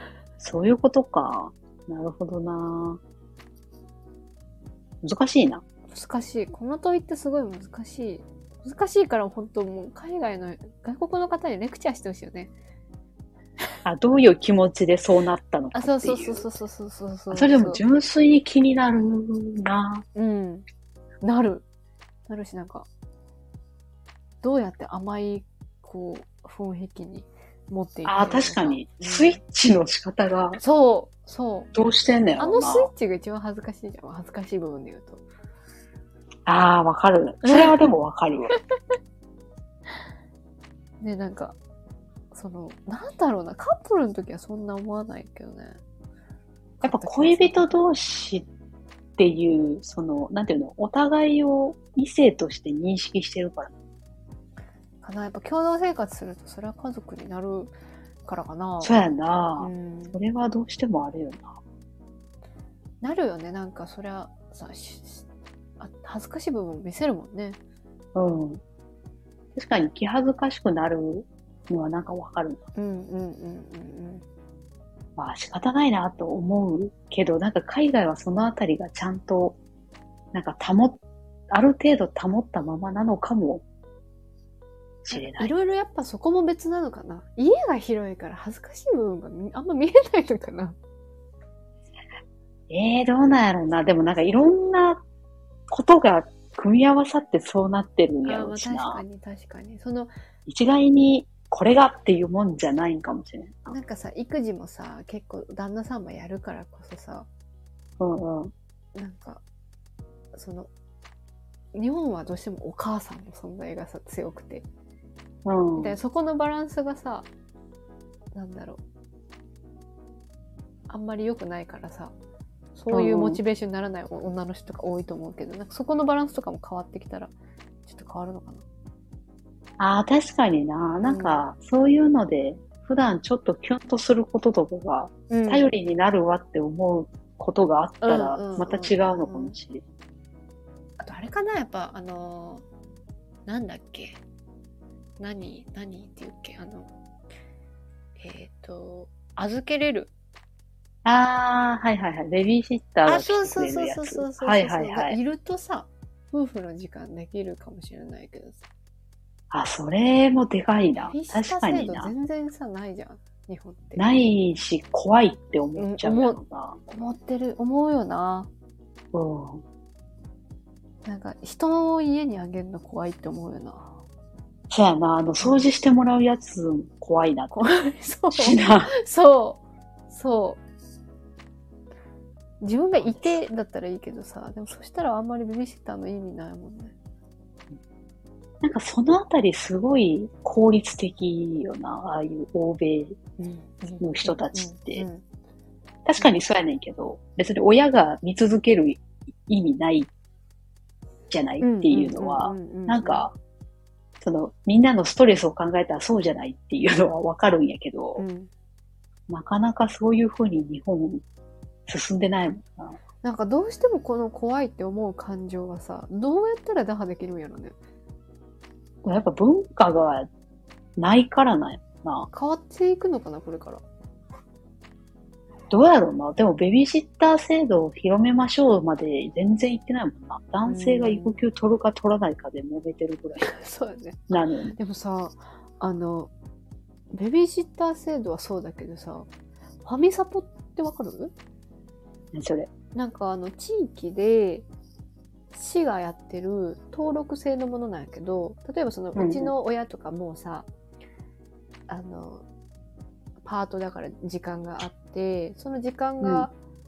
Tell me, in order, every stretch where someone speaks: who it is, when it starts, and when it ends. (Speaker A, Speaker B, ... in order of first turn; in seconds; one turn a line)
Speaker A: 0.4-3.0
Speaker A: 5.0-5.6
Speaker B: 5.9-12.5
Speaker A: 13.8-16.4
Speaker B: 15.7-17.8
Speaker A: 17.3-20.0
Speaker B: 20.1-20.6
Speaker B: 21.2-21.6
Speaker B: 22.3-22.9
Speaker B: 24.4-29.4
Speaker A: 28.0-30.6
Speaker B: 30.6-31.7
Speaker A: 31.7-32.9
Speaker B: 32.4-35.2
Speaker A: 36.5-38.5
Speaker B: 37.4-37.8
Speaker B: 41.0-41.6
Speaker B: 42.3-45.8
Speaker B: 46.8-47.8
Speaker A: 46.8-48.5
Speaker A: 49.2-53.7
Speaker B: 55.0-57.7
Speaker B: 58.2-59.0
Speaker A: 58.8-61.5
Speaker B: 59.6-60.2
Speaker B: 63.0-65.2
Speaker B: 65.8-67.6
Speaker A: 68.1-68.6
Speaker A: 69.5-72.6
Speaker B: 72.8-74.2
Speaker A: 75.2-79.6
Speaker A: 80.3-83.6
Speaker A: 85.0-85.5
Speaker B: 85.1-90.8
Speaker A: 92.7-95.0
Speaker A: 95.7-99.0
Speaker B: 98.2-100.1
Speaker A: 100.5-103.8
Speaker B: 103.7-107.3
Speaker A: 108.0-108.5
Speaker B: 108.9-109.4
Speaker B: 110.3-110.7
Speaker B: 111.7-114.7
Speaker A: 115.4-116.0
Speaker B: 115.8-117.3
Speaker B: 118.3-118.8
Speaker B: 120.9-122.1
Speaker B: 122.7-127.3
Speaker A: 122.9-123.4
Speaker B: 127.9-128.6
Speaker A: 129.8-139.8
Speaker B: 131.0-131.4
Speaker B: 135.3-135.7
Speaker B: 138.0-139.6
Speaker B: 141.0-142.6
Speaker B: 143.4-144.2
Speaker B: 145.2-146.9
Speaker B: 148.2-150.1
Speaker A: 151.0-155.2
Speaker B: 153.0-158.6
Speaker A: 159.5-162.1
Speaker B: 161.0-164.1
Speaker A: 163.9-166.8
Speaker B: 165.8-168.5
Speaker A: 169.1-169.6
Speaker B: 171.0-173.9
Speaker A: 174.7-177.6
Speaker B: 177.5-180.6
Speaker A: 178.3-178.9
Speaker B: 182.6-186.9
Speaker A: 183.0-183.4
Speaker A: 188.6-193.2
Speaker B: 193.4-195.2
Speaker A: 194.0-195.1
Speaker A: 196.1-200.1
Speaker A: 201.3-203.3
Speaker B: 201.6-203.2
Speaker A: 204.2-208.2
Speaker B: 208.2-208.5
Speaker A: 209.3-211.2
Speaker A: 211.9-213.0
Speaker B: 213.2-217.8
Speaker A: 219.0-220.3
Speaker A: 221.0-222.3
Speaker B: 222.3-223.8
Speaker A: 225.7-233.5
Speaker B: 230.6-231.4
Speaker B: 233.4-236.3
Speaker A: 234.3-234.8
Speaker B: 237.1-239.3
Speaker B: 239.8-241.3
Speaker A: 242.3-242.7
Speaker B: 242.9-244.7
Speaker B: 245.5-250.7
Speaker A: 249.1-249.5
Speaker B: 251.9-252.4
Speaker B: 253.4-256.5
Speaker A: 256.2-256.5